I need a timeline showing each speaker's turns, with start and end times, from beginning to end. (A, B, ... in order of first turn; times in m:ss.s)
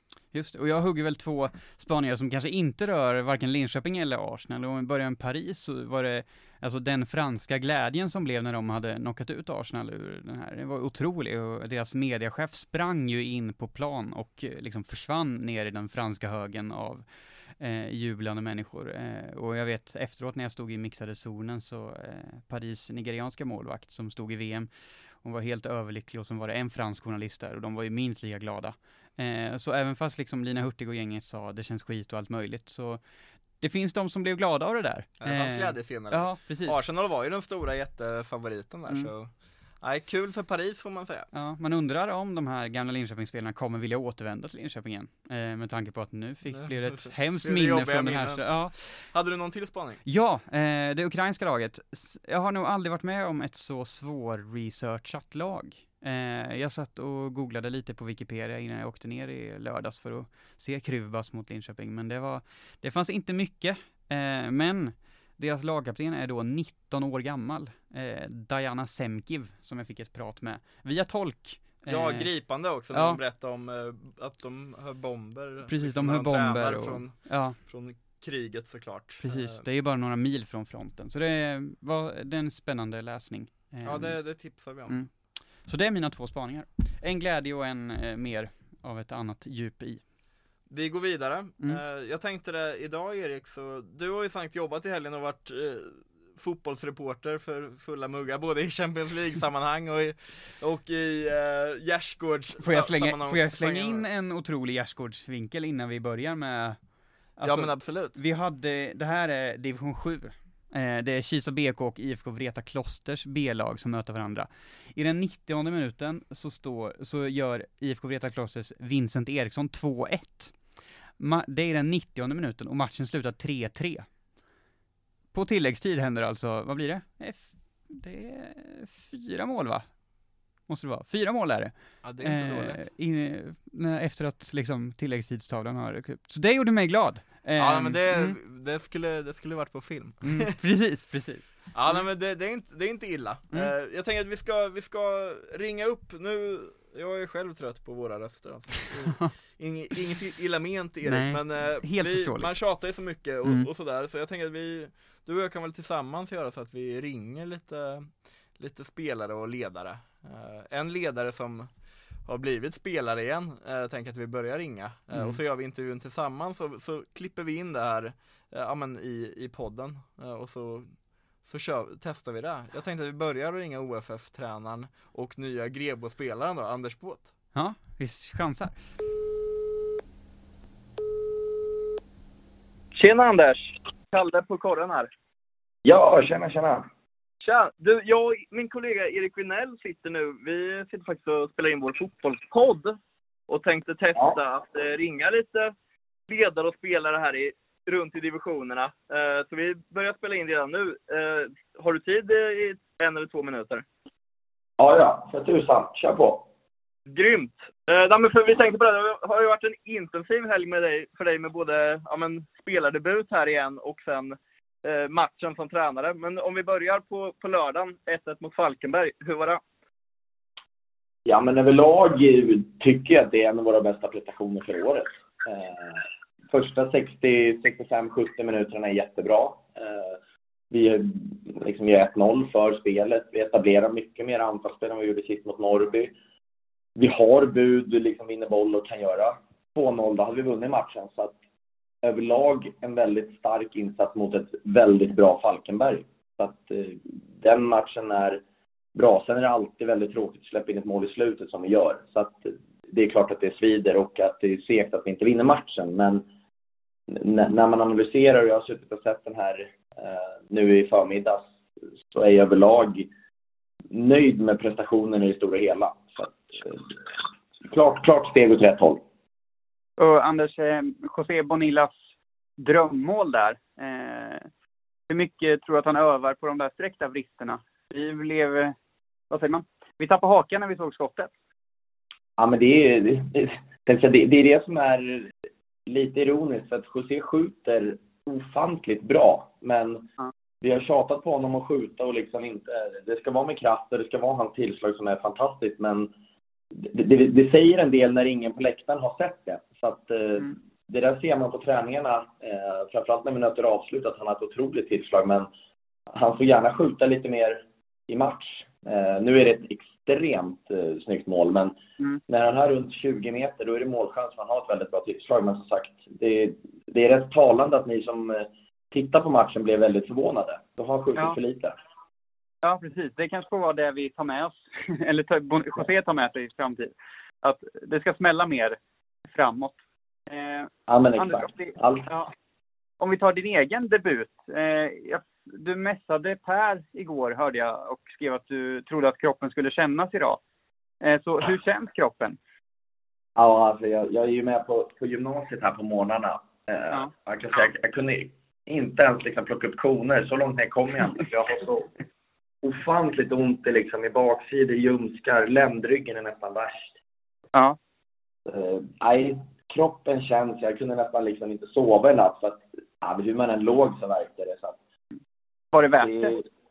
0:00.3-0:36.8 A
0:35.2-0:41.3 B
0:38.9-0:39.1 A
0:41.3-0:49.2 A
0:46.4-0:50.0 B
0:50.0-1:13.2 A
1:11.8-1:19.6 B
1:15.7-1:17.6 A
1:19.2-1:30.1 A
1:23.8-1:25.1 B
1:30.7-1:44.0 B
1:42.6-2:04.2 A
1:47.4-1:48.2 B
2:05.3-2:18.4 A
2:12.0-2:12.8 B
2:17.6-2:20.5 B
2:20.2-2:22.0 A
2:21.7-2:57.3 B
2:31.0-2:32.9 A
2:33.4-2:33.7 A
2:45.1-2:45.4 A
2:57.5-2:58.9 A
3:02.9-3:05.1 C
3:05.8-3:06.9 D
3:07.4-3:13.0 C
3:13.5-3:15.7 C
3:16.3-3:23.8 C
3:24.8-3:26.4 D
3:27.1-3:39.6 C
3:41.2-3:50.2 D
3:50.7-3:56.1 D
3:57.0-4:01.4 D
4:02.0-4:08.4 D
4:09.0-4:16.2 D
4:17.1-4:21.5 D
4:22.1-4:23.1 D
4:23.9-4:26.9 D
4:27.7-4:29.0 D
4:30.0-4:32.0 E
4:32.6-4:34.4 E
4:35.1-4:38.7 E
4:39.3-4:41.3 E
4:42.4-4:45.3 D
4:45.8-4:50.1 D
4:50.6-4:56.1 D
4:56.7-5:05.5 D
5:06.1-5:11.7 D
5:12.3-5:21.8 D
5:22.6-5:32.3 E
5:30.9-5:32.1 D
5:33.0-5:40.4 E
5:41.0-5:42.4 E
5:43.4-5:51.9 D
5:52.6-5:57.0 D
5:58.4-6:04.8 D
6:05.7-6:06.3 E
6:06.0-6:06.4 D